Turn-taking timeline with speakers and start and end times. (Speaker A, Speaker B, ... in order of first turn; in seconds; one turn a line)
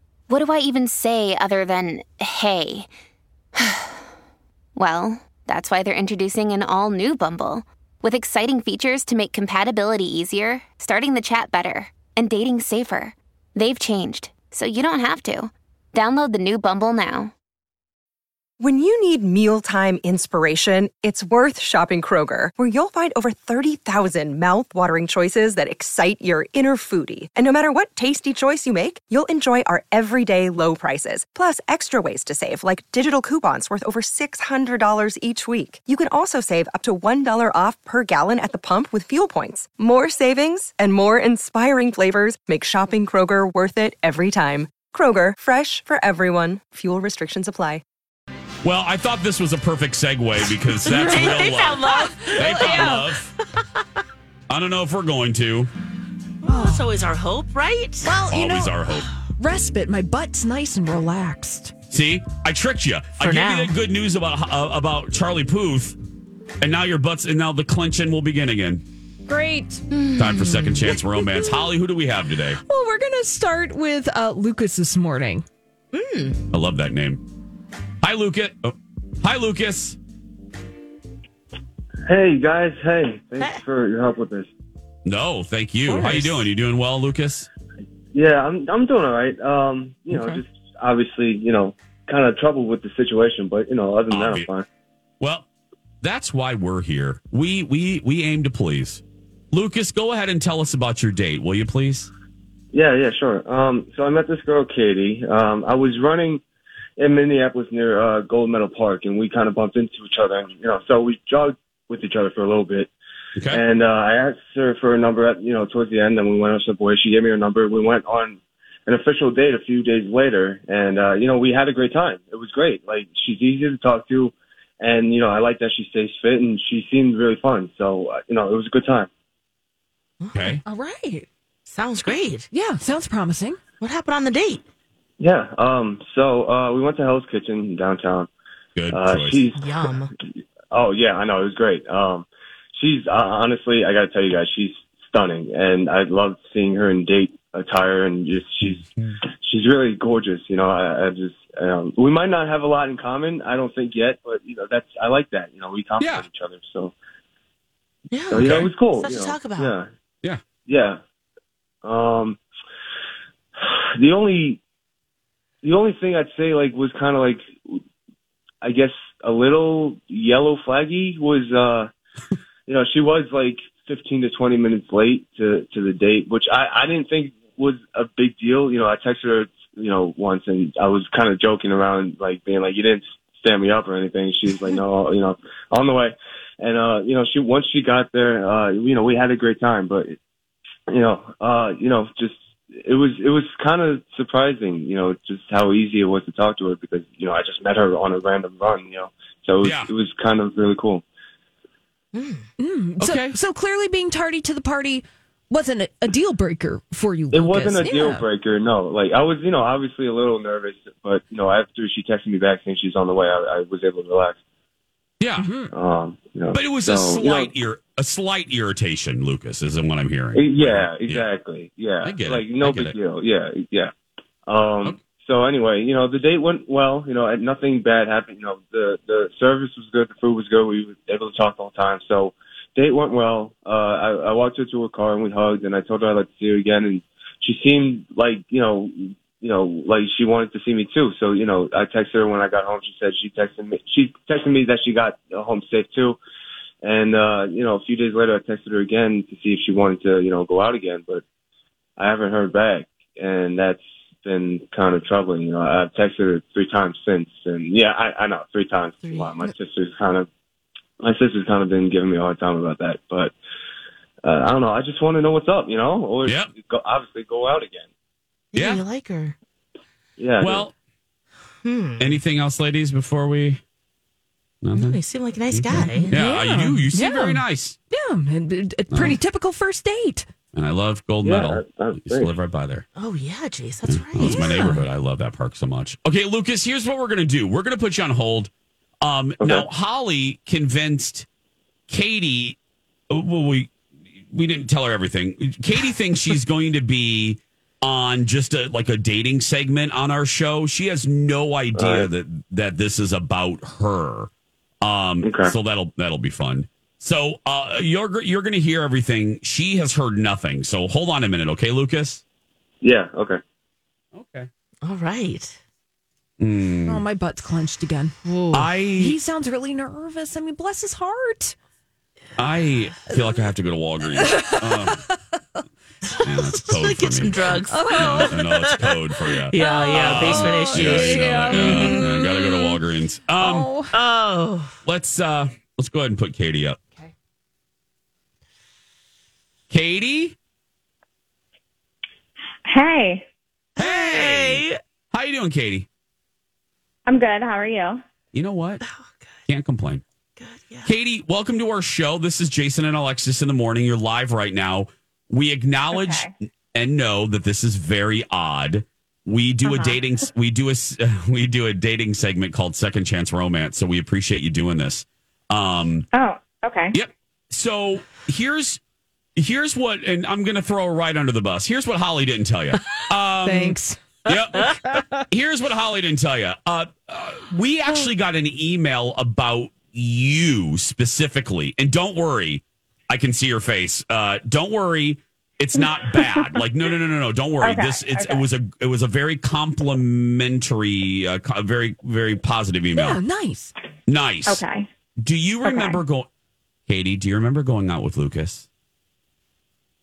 Speaker A: 0.3-2.9
Speaker A: 3.6-4.0
Speaker A: 4.8-17.3
Speaker B: 18.6-47.8
Speaker C: 48.6-53.3
Speaker D: 50.9-53.0
Speaker E: 50.9-53.1
Speaker C: 54.5-55.7
Speaker D: 56.4-58.1
Speaker E: 56.5-56.9
Speaker E: 58.0-61.7
Speaker C: 58.3-59.1
Speaker C: 61.9-66.0
Speaker D: 63.2-63.7
Speaker C: 66.6-68.8
Speaker E: 69.3-69.8
Speaker D: 69.9-70.9
Speaker C: 70.2-72.6
Speaker E: 70.9-71.7
Speaker E: 72.5-75.5
Speaker D: 75.9-76.4
Speaker C: 76.5-77.2
Speaker C: 78.0-80.0
Speaker F: 82.1-84.5
Speaker C: 85.0-87.5
Speaker D: 85.9-86.5
Speaker F: 88.1-94.7
Speaker C: 94.1-94.5
Speaker C: 95.2-95.5
Speaker C: 96.0-102.1
Speaker F: 102.7-106.4
Speaker F: 107.0-112.9
Speaker C: 113.4-113.6
Speaker F: 113.5-129.1
Speaker D: 130.2-130.6
Speaker C: 130.3-130.6
Speaker E: 130.6-131.3
Speaker D: 131.7-132.5
Speaker E: 132.5-133.6
Speaker D: 133.8-134.6
Speaker F: 135.2-138.3
Speaker C: 138.8-139.5
Speaker F: 138.9-140.1
Speaker D: 139.6-140.1
Speaker F: 140.7-148.8
Speaker C: 148.8-149.1
Speaker F: 149.4-156.9
Speaker C: 156.0-156.3
Speaker D: 158.1-159.8
Speaker F: 158.3-159.9
Speaker C: 158.4-158.7
Speaker F: 160.7-161.0
Speaker F: 161.8-162.4
Speaker F: 163.6-164.6
Speaker F: 165.6-167.8
Speaker F: 168.6-171.9
Speaker F: 172.7-190.2
Speaker F: 190.9-201.0
Speaker C: 199.6-199.9
Speaker D: 202.1-202.4
Speaker E: 202.6-208.3
Speaker C: 203.0-203.3
Speaker F: 207.3-214.4
Speaker C: 215.2-215.6
Speaker E: 215.4-215.7
Speaker F: 215.7-217.5
Speaker C: 216.5-221.3
Speaker F: 220.3-223.9
Speaker C: 222.0-223.0
Speaker F: 224.5-246.2
Speaker F: 246.8-251.2
Speaker F: 252.0-260.3
Speaker D: 259.0-259.3
Speaker F: 261.0-263.3
Speaker F: 264.2-267.9
Speaker C: 266.2-266.5
Speaker D: 268.5-269.4
Speaker C: 268.6-268.8
Speaker F: 270.2-270.7
Speaker C: 270.4-270.7
Speaker D: 271.6-272.2
Speaker C: 272.0-273.6
Speaker C: 274.6-277.8
Speaker D: 274.8-276.1
Speaker E: 276.1-280.3
Speaker C: 278.9-279.2
Speaker C: 280.5-282.9
Speaker F: 281.2-282.4
Speaker D: 283.0-284.5
Speaker C: 283.9-291.3
Speaker E: 284.2-284.9
Speaker F: 289.4-289.7
Speaker C: 291.9-292.6
Speaker C: 293.1-293.7
Speaker C: 294.3-304.3
Speaker F: 301.8-302.1
Speaker C: 304.8-312.2
Speaker F: 305.2-305.6
Speaker F: 312.8-313.4
Speaker C: 314.1-314.5
Speaker D: 314.8-315.6
Speaker C: 316.4-317.0
Speaker E: 316.9-318.1
Speaker D: 318.2-318.7
Speaker C: 318.5-319.2
Speaker E: 319.0-321.6
Speaker C: 322.4-325.0
Speaker E: 323.1-323.4
Speaker E: 324.2-325.1
Speaker D: 326.1-329.0
Speaker C: 326.2-333.7
Speaker E: 327.7-328.4
Speaker D: 329.5-332.1
Speaker E: 329.6-332.8
Speaker E: 333.4-333.9
Speaker D: 333.9-334.7
Speaker C: 334.9-336.8
Speaker C: 339.7-340.4
Speaker G: 342.6-343.2
Speaker D: 343.8-344.8
Speaker C: 343.8-345.9
Speaker G: 347.1-348.0
Speaker C: 348.3-348.8
Speaker D: 348.8-349.4
Speaker C: 349.5-350.0
Speaker D: 350.4-350.9
Speaker C: 350.9-366.1
Speaker G: 355.9-356.3
Speaker G: 359.6-360.0
Speaker G: 366.1-367.0
Speaker C: 366.9-368.8
Speaker C: 369.4-374.7
Speaker E: 373.4-374.0
Speaker E: 374.5-375.2
Speaker C: 375.3-393.2
Speaker G: 387.6-388.5
Speaker E: 392.9-393.8
Speaker C: 394.1-394.6
Speaker G: 394.5-394.9
Speaker C: 395.2-396.3
Speaker G: 395.6-396.0
Speaker C: 396.9-398.7